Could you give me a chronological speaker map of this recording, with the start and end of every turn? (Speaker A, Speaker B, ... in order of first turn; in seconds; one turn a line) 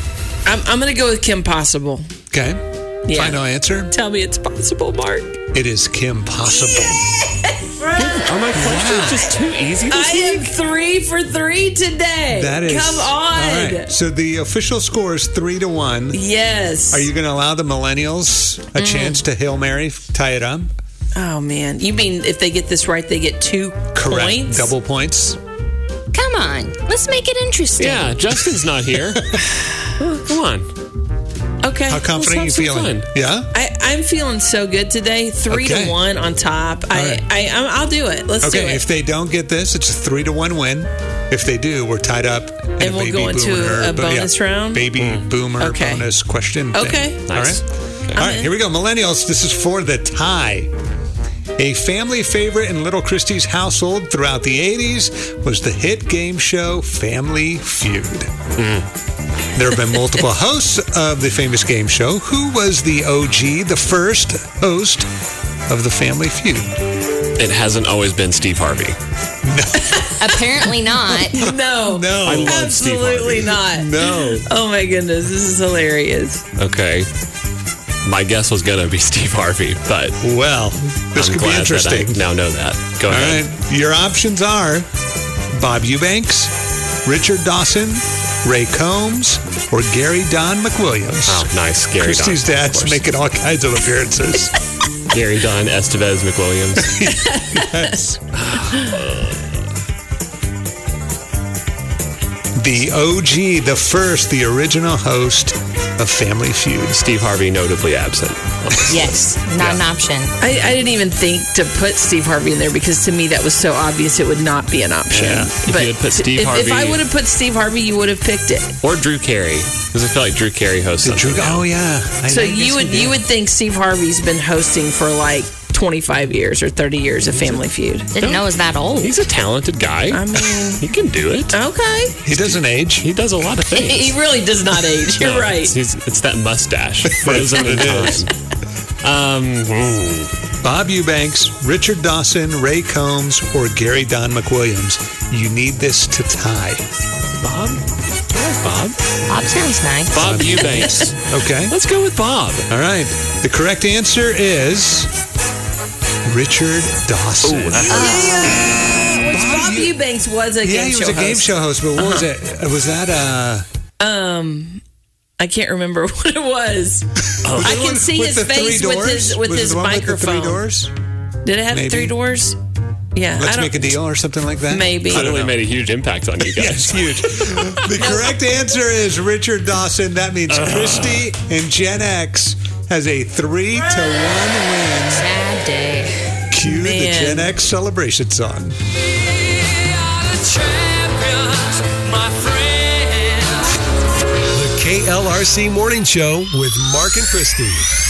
Speaker A: 0.5-2.1
Speaker B: 2.3-3.9
Speaker A: 3.1-3.4
Speaker A: 3.9-5.4
Speaker B: 5.5-7.1
Speaker A: 6.8-9.3
Speaker C: 8.0-10.5
Speaker B: 8.6-9.3
Speaker A: 9.9-13.9
Speaker B: 12.3-16.2
Speaker A: 16.1-17.1
Speaker B: 16.9-20.7
Speaker A: 18.8-19.2
Speaker A: 21.1-24.7
Speaker B: 23.9-25.4
Speaker D: 26.1-28.1
Speaker C: 27.8-29.2
Speaker B: 29.1-29.5
Speaker C: 30.0-30.7
Speaker A: 31.6-32.1
Speaker B: 31.9-33.5
Speaker C: 32.1-33.1
Speaker A: 33.5-38.8
Speaker B: 35.5-36.0
Speaker B: 36.9-37.2
Speaker B: 38.4-47.6
Speaker A: 42.8-44.9
Speaker C: 45.0-45.2
Speaker A: 45.6-46.1
Speaker A: 46.7-47.2
Speaker C: 47.3-48.2
Speaker A: 48.1-48.5
Speaker B: 48.1-50.7
Speaker B: 51.6-58.3
Speaker C: 58.6-58.9
Speaker B: 59.5-65.1
Speaker B: 65.7-66.7
Speaker C: 67.4-69.0
Speaker B: 69.4-70.1
Speaker A: 69.9-70.6
Speaker D: 70.2-71.4
Speaker A: 71.1-76.4
Speaker B: 71.4-72.7
Speaker C: 72.2-73.5
Speaker B: 73.7-74.5
Speaker C: 76.6-77.1
Speaker C: 78.0-80.2
Speaker B: 80.2-82.2
Speaker C: 81.1-83.4
Speaker B: 83.1-84.9
Speaker B: 85.5-86.5
Speaker B: 87.0-91.5
Speaker C: 91.3-93.0
Speaker B: 92.0-94.5
Speaker C: 95.1-97.0
Speaker B: 96.8-98.2
Speaker A: 97.1-97.9
Speaker C: 98.3-99.6
Speaker B: 102.6-107.0
Speaker C: 106.9-109.8
Speaker D: 108.9-110.3
Speaker A: 110.4-118.7
Speaker B: 115.1-115.5
Speaker C: 115.6-117.0
Speaker C: 118.8-121.6
Speaker B: 121.0-123.2
Speaker A: 122.3-128.1
Speaker D: 128.1-129.2
Speaker C: 128.2-128.4
Speaker C: 129.0-131.6
Speaker A: 130.1-130.8
Speaker A: 131.5-132.2
Speaker B: 132.2-133.1
Speaker C: 132.3-134.1
Speaker A: 133.7-135.7
Speaker C: 135.2-138.3
Speaker B: 137.1-138.2
Speaker C: 139.0-140.3
Speaker B: 140.6-146.8
Speaker C: 147.4-149.0
Speaker D: 149.3-150.6
Speaker C: 150.1-152.7
Speaker B: 150.2-151.7
Speaker B: 152.7-155.1
Speaker B: 156.2-158.7
Speaker C: 157.4-157.9
Speaker A: 157.7-162.2
Speaker D: 157.9-158.3
Speaker B: 159.3-160.0
Speaker B: 160.6-163.6
Speaker A: 164.0-164.8
Speaker A: 165.4-167.0
Speaker B: 167.3-170.9
Speaker C: 167.4-167.8
Speaker A: 167.6-170.6
Speaker A: 171.4-172.6
Speaker B: 171.7-172.1
Speaker A: 173.1-173.9
Speaker B: 173.4-175.6
Speaker A: 174.7-175.3
Speaker C: 175.1-177.8
Speaker B: 176.5-185.3
Speaker A: 178.0-178.4
Speaker C: 180.5-181.3
Speaker D: 185.1-186.4
Speaker B: 186.5-188.8
Speaker A: 186.6-187.5
Speaker E: 189.9-193.7
Speaker E: 194.5-197.9